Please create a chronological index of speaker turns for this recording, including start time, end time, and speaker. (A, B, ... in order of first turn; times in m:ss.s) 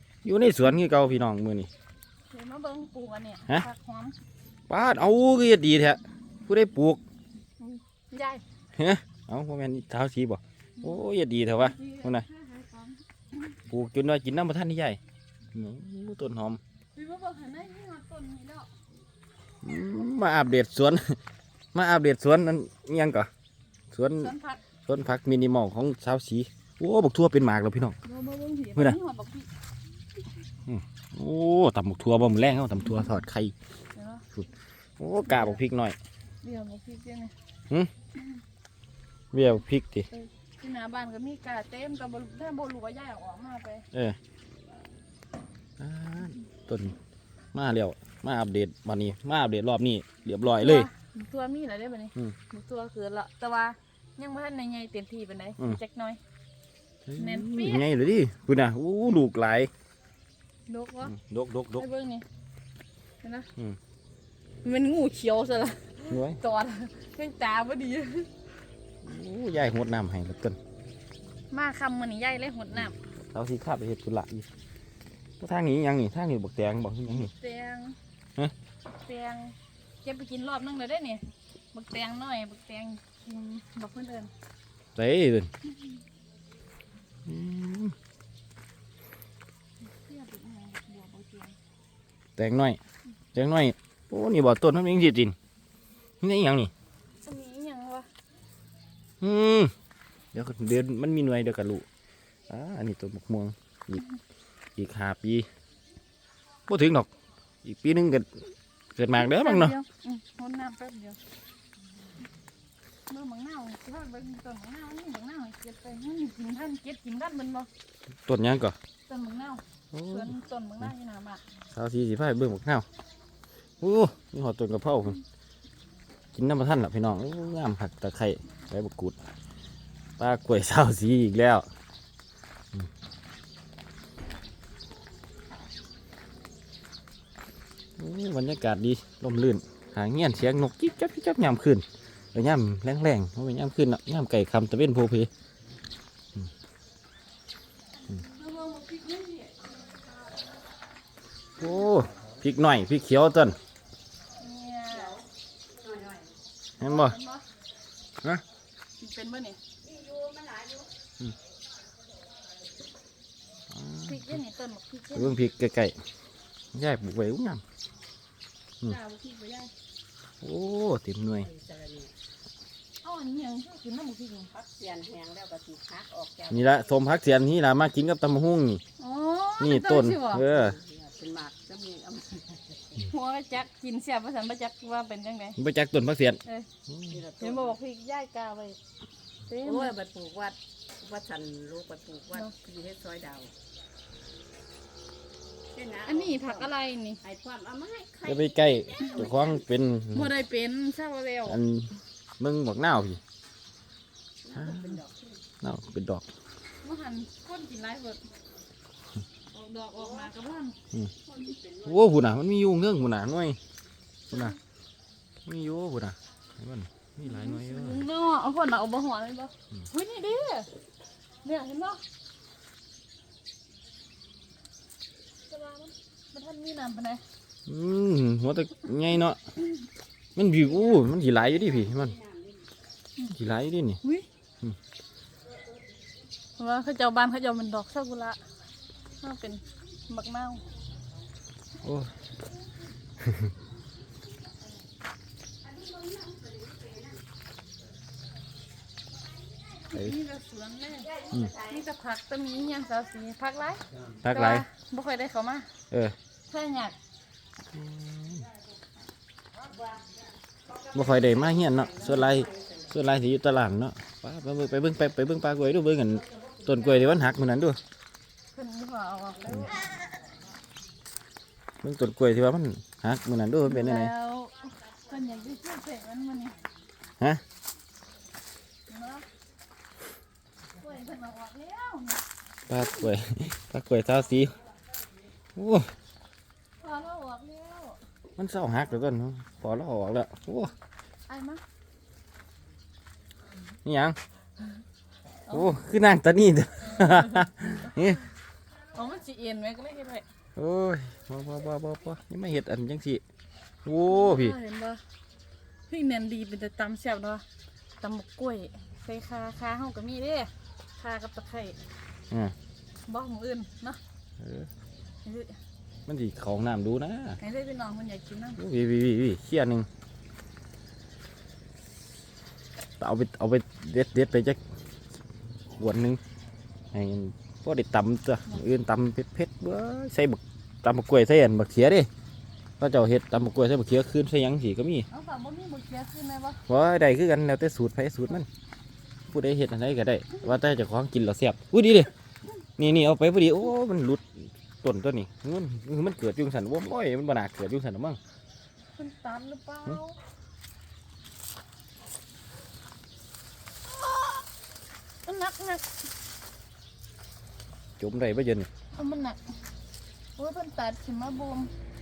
0:00.2-0:01.7 A
0:02.3-0:04.1 B
0:04.7-0:07.0 A
0:07.6-0:08.4 B
0:08.7-0:12.3 A
0:11.6-0:13.5 B
0:13.7-0:15.0 A
0:15.5-0:16.6 A
0:16.9-0:18.7 B
0:19.6-0:21.2 A
0:21.7-0:23.3 A
0:23.9-0:24.3 A
0:24.1-0:24.6 B
0:24.9-0:28.0 A
0:28.0-0:29.5 B
0:30.6-0:33.5 A
0:33.9-0:34.2 B
0:34.3-0:36.0 A
0:35.3-0:35.6 B
0:36.4-0:37.3 B
0:39.3-0:40.1 A
0:40.1-0:43.8 B
0:45.8-0:47.0 A
0:47.5-0:50.9 A
0:50.5-0:56.2 B
0:57.0-0:59.7 A
0:57.2-0:57.8 B
1:00.7-1:01.1 B
1:01.0-1:01.8 A
1:01.8-1:02.2 B
1:03.2-1:03.5 B
1:04.6-1:08.3 B
1:06.1-1:06.4 A
1:09.0-1:10.6 A
1:11.5-1:13.0 B
1:13.2-1:14.5 A
1:15.4-1:17.3 A
1:17.1-1:18.0 B
1:19.0-1:24.3 B
1:25.0-1:25.5 A
1:27.2-1:27.9 A
1:29.9-1:31.5 B
1:32.4-1:32.8 A
1:33.3-1:35.3 A
1:36.2-1:36.7 A
1:37.2-1:38.1 B
1:39.2-1:39.7 A
1:40.3-1:41.8 A
1:42.5-1:44.0 A
1:44.8-1:45.4 A
1:46.7-1:47.1 A
1:47.6-1:48.3 A
1:49.0-1:49.7 A
1:49.1-1:51.2 B
1:53.1-1:57.7 B
1:58.3-1:58.7 A
1:59.1-2:01.4 B
1:59.9-2:00.3 A
2:01.7-2:02.8 A
2:03.8-2:05.2 A
2:06.3-2:09.2 A
2:10.2-2:11.6 A
2:18.0-2:25.3 A
2:28.1-2:29.6 B
2:31.6-2:33.6 A
2:34.4-2:35.2 B
2:35.7-2:36.3 C
2:36.8-2:37.2 A
2:36.8-2:37.4 B
2:39.0-2:39.6 B
2:39.8-2:40.9 C
2:43.7-2:44.3 A
2:44.0-2:45.4 B
2:45.1-2:46.0 A
2:46.7-2:47.6 A
2:48.8-2:49.7 B
2:50.4-2:51.5 A
2:51.5-2:52.1 C
2:53.0-2:54.5 B
2:54.5-2:56.7 C
2:56.5-2:58.8 A
2:59.0-3:00.4 B
2:59.6-3:00.8 A
3:00.4-3:03.0 C
3:03.0-3:05.6 B
3:05.6-3:07.2 A
3:07.1-3:07.7 C
3:07.4-3:08.8 B
3:09.5-3:09.9 B
3:09.6-3:13.5 C
3:15.7-3:16.7 C
3:16.0-3:17.2 B
3:17.2-3:19.5 C
3:18.2-3:20.4 A
3:20.1-3:21.6 B
3:21.4-3:23.2 A
3:24.4-3:25.4 C
3:24.6-3:25.0 A
3:25.6-3:26.2 A
3:26.8-3:28.2 B
3:29.5-3:30.8 B
3:31.3-3:32.0 C
3:31.8-3:33.6 A
3:34.3-3:34.6 A
3:35.4-3:38.0 A
3:37.2-3:40.7 B
3:41.4-3:42.0 B
3:45.5-3:47.2 B
3:47.7-3:49.4 A
3:50.4-3:52.2 A
3:51.6-3:52.6 C
3:53.3-3:54.0 A
3:56.6-3:58.4 B
3:59.2-4:00.6 B
4:01.8-4:02.1 A
4:03.2-4:03.5 A
4:05.8-4:07.1 C
4:09.9-4:15.7 B
4:11.3-4:11.6 A
4:14.2-4:14.6 A
4:16.5-4:17.0 B
4:17.7-4:18.5 A
4:20.9-4:27.8 A
4:28.5-4:29.9 B
4:31.8-4:34.1 A
4:33.6-4:36.6 B
4:38.9-4:39.2 B
4:40.7-4:43.1 B
4:42.7-4:44.6 A
4:45.6-4:45.9 A
4:46.8-4:48.0 B
4:48.4-4:50.7 A
4:51.3-4:51.6 B
4:53.8-4:54.2 A
4:55.5-4:58.2 A
4:57.0-4:57.5 B
4:58.9-5:00.2 B
5:00.6-5:03.2 A
5:03.8-5:04.6 A
5:04.1-5:05.0 B
5:05.9-5:07.4 B
5:08.0-5:11.8 B
5:13.0-5:14.0 B
5:14.4-5:14.7 A
5:15.2-5:15.6 B
5:16.1-5:17.4 A
5:17.4-5:18.6 B
5:18.6-5:19.9 A
5:23.0-5:24.6 A
5:25.8-5:26.2 A
5:26.9-5:32.1 A
5:32.8-5:35.1 A
5:35.1-5:36.6 B
5:36.7-5:38.5 A
5:39.3-5:42.1 A
5:42.8-5:48.2 A
5:49.0-5:50.2 B
5:54.0-5:54.3 B
5:55.2-5:56.0 B
5:58.0-5:58.7 A
5:58.9-5:59.4 B
6:00.4-6:01.7 B